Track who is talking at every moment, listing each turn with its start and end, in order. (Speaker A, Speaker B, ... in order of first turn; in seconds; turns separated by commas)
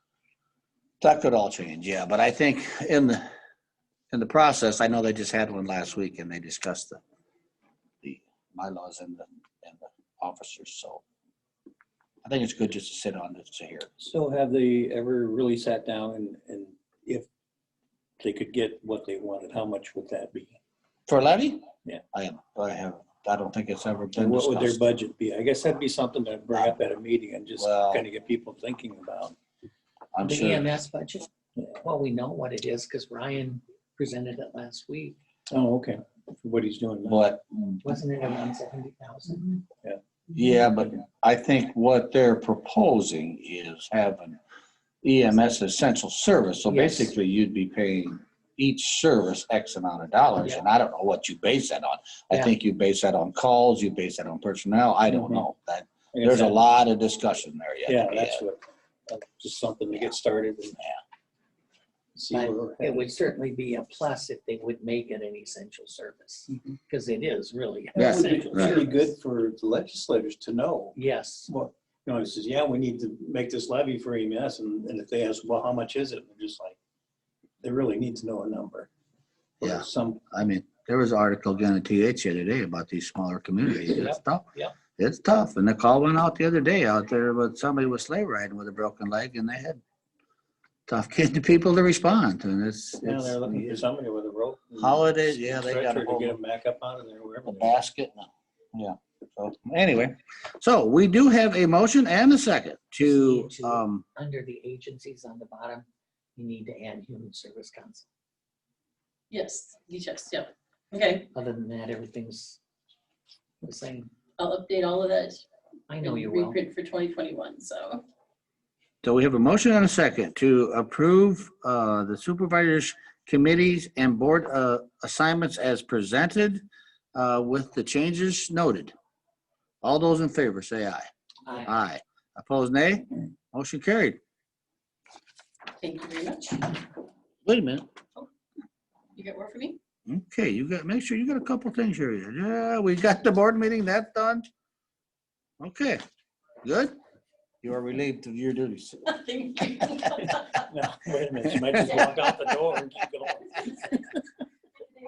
Speaker A: 1.0-3.2, Speaker A: 4.1-7.0, Speaker A: 8.0-11.0, Speaker A: 12.2-13.9, Speaker B: 14.0-17.3, Speaker B: 18.2-20.6, Speaker A: 21.1-24.8, Speaker B: 24.2-29.4, Speaker A: 26.5-26.8, Speaker A: 27.6-28.1, Speaker A: 30.1-30.7, Speaker C: 30.2-35.2, Speaker B: 35.5-37.2, Speaker A: 37.1-37.6, Speaker C: 37.8-39.6, Speaker A: 40.3-44.4, Speaker A: 45.0-58.4, Speaker C: 46.7-47.1, Speaker B: 55.1-55.5, Speaker B: 56.1-56.6, Speaker B: 57.9-60.8, Speaker B: 62.1-63.2, Speaker C: 62.3-69.1, Speaker B: 68.0-71.0, Speaker A: 68.0-68.8, Speaker C: 71.0-71.5, Speaker B: 71.5-76.8, Speaker B: 77.6-78.9, Speaker B: 79.6-80.2, Speaker A: 79.6-89.8, Speaker C: 83.7-84.8, Speaker A: 90.9-93.8, Speaker B: 93.0-97.8, Speaker A: 94.8-96.4, Speaker A: 97.5-104.0, Speaker C: 103.0-108.1, Speaker D: 109.3-111.3, Speaker C: 111.3-112.6, Speaker C: 113.6-114.1, Speaker D: 114.4-115.4, Speaker C: 115.9-116.6, Speaker D: 116.0-118.0, Speaker A: 119.0-128.9, Speaker A: 129.8-131.1, Speaker C: 131.5-131.7, Speaker A: 131.6-134.2, Speaker D: 135.8-136.8, Speaker A: 137.4-137.9, Speaker D: 139.2-139.8, Speaker A: 140.1-144.5, Speaker A: 145.6-146.0, Speaker A: 146.6-147.0, Speaker A: 147.6-149.1, Speaker D: 149.1-150.7, Speaker B: 150.7-153.8, Speaker A: 151.7-152.1